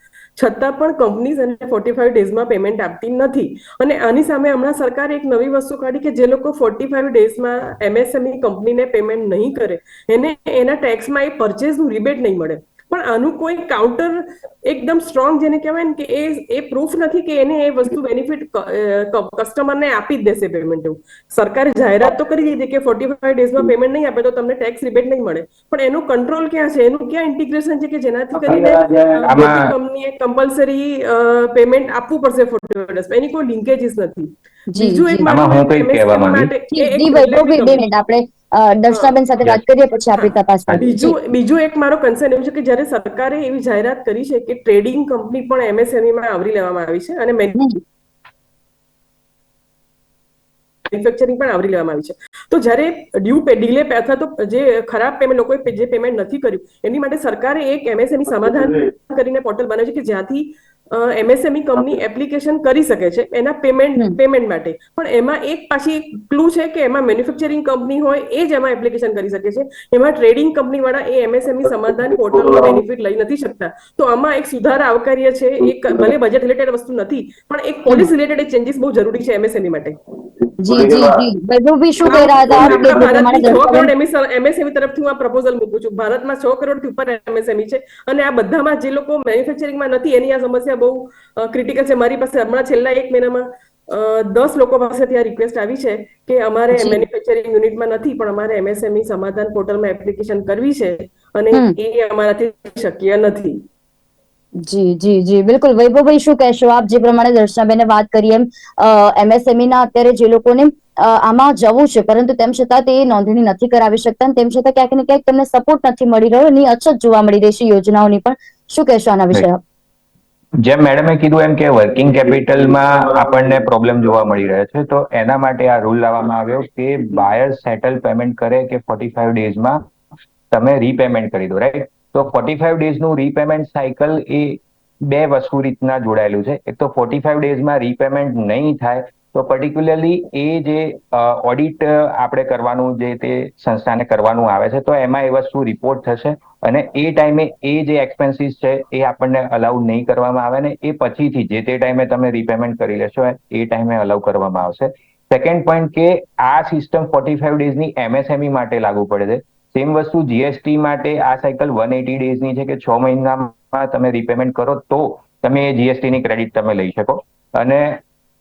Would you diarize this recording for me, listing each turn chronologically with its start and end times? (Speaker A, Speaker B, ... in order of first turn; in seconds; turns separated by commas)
Speaker A: 0.4-37.9, Speaker B: 29.2-29.7, Speaker C: 34.7-35.2, Speaker B: 35.2-36.5, Speaker C: 36.7-41.1, Speaker A: 38.9-39.2, Speaker A: 40.8-47.6, Speaker A: 50.9-80.0, Speaker C: 80.6-83.9, Speaker A: 82.0-103.6, Speaker C: 96.7-97.0, Speaker C: 104.6-119.6, Speaker B: 120.6-129.8, Speaker B: 130.5-168.0